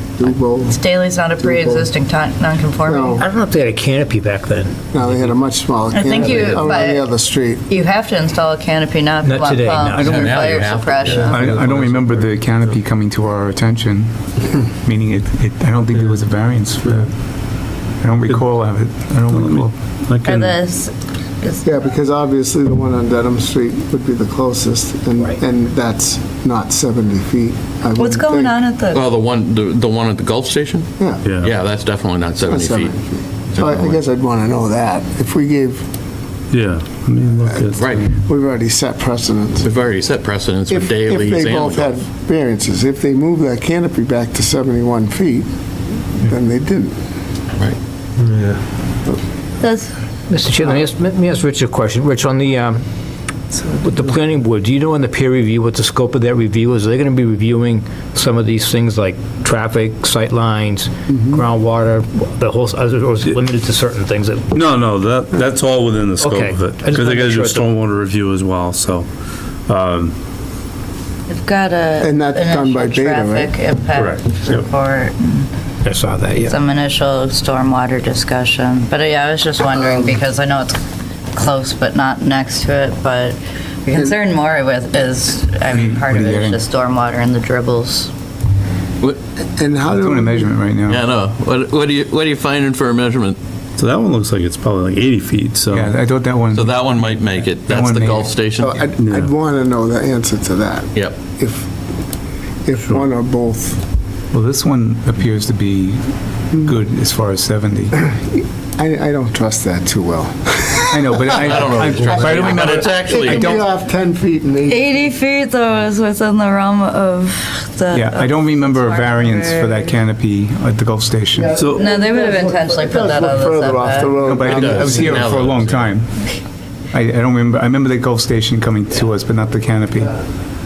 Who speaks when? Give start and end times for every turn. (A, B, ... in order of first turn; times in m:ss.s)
0:00.2-0:00.8 A
0:00.6-0:03.2 B
0:01.4-0:01.9 A
0:02.8-0:03.2 A
0:03.2-0:05.4 C
0:04.9-0:07.6 A
0:05.9-0:07.1 B
0:07.7-0:11.5 B
0:09.2-0:10.6 C
0:10.0-0:11.3 D
0:11.2-0:17.2 E
0:11.4-0:11.8 C
0:18.0-0:19.7 E
0:19.3-0:20.6 F
0:20.2-0:21.9 B
0:21.6-0:28.6 A
0:28.0-0:29.0 B
0:28.9-0:33.0 D
0:31.0-0:31.2 A
0:31.2-0:31.5 F
0:32.4-0:35.8 A
0:33.5-0:34.0 D
0:36.5-0:38.0 F
0:37.7-0:38.1 D
0:38.2-0:39.7 A
0:39.6-0:42.0 D
0:40.7-0:45.5 A
0:46.1-0:47.0 A
0:49.6-0:49.9 B
0:50.3-0:52.8 C
0:53.6-1:04.5 C
1:04.5-1:09.1 F
1:06.2-1:07.7 C
1:09.7-1:10.1 F
1:11.3-1:15.5 B
1:12.0-1:13.5 A
1:13.9-1:14.6 F
1:15.8-1:16.5 C
1:16.4-1:20.8 B
1:19.8-1:20.1 A
1:21.3-1:28.1 B
1:25.7-1:26.6 E
1:29.6-1:30.5 A
1:29.9-1:31.1 E
1:30.9-1:33.4 D
1:33.8-1:35.9 F
1:35.7-1:38.3 E
1:36.5-1:38.9 D
1:38.6-1:41.7 A
1:39.0-1:39.3 F
1:42.6-1:43.8 A
1:42.8-1:43.1 F
1:44.3-1:48.0 E
1:48.8-1:55.1 A
1:50.9-1:53.6 E
1:51.3-1:53.6 D
1:54.6-1:59.9 B
1:57.9-2:01.6 E
2:01.3-2:05.2 A
2:01.5-2:01.8 F
2:01.7-2:04.2 B
2:04.2-2:06.3 E
2:04.4-2:05.9 D
2:06.9-2:10.1 E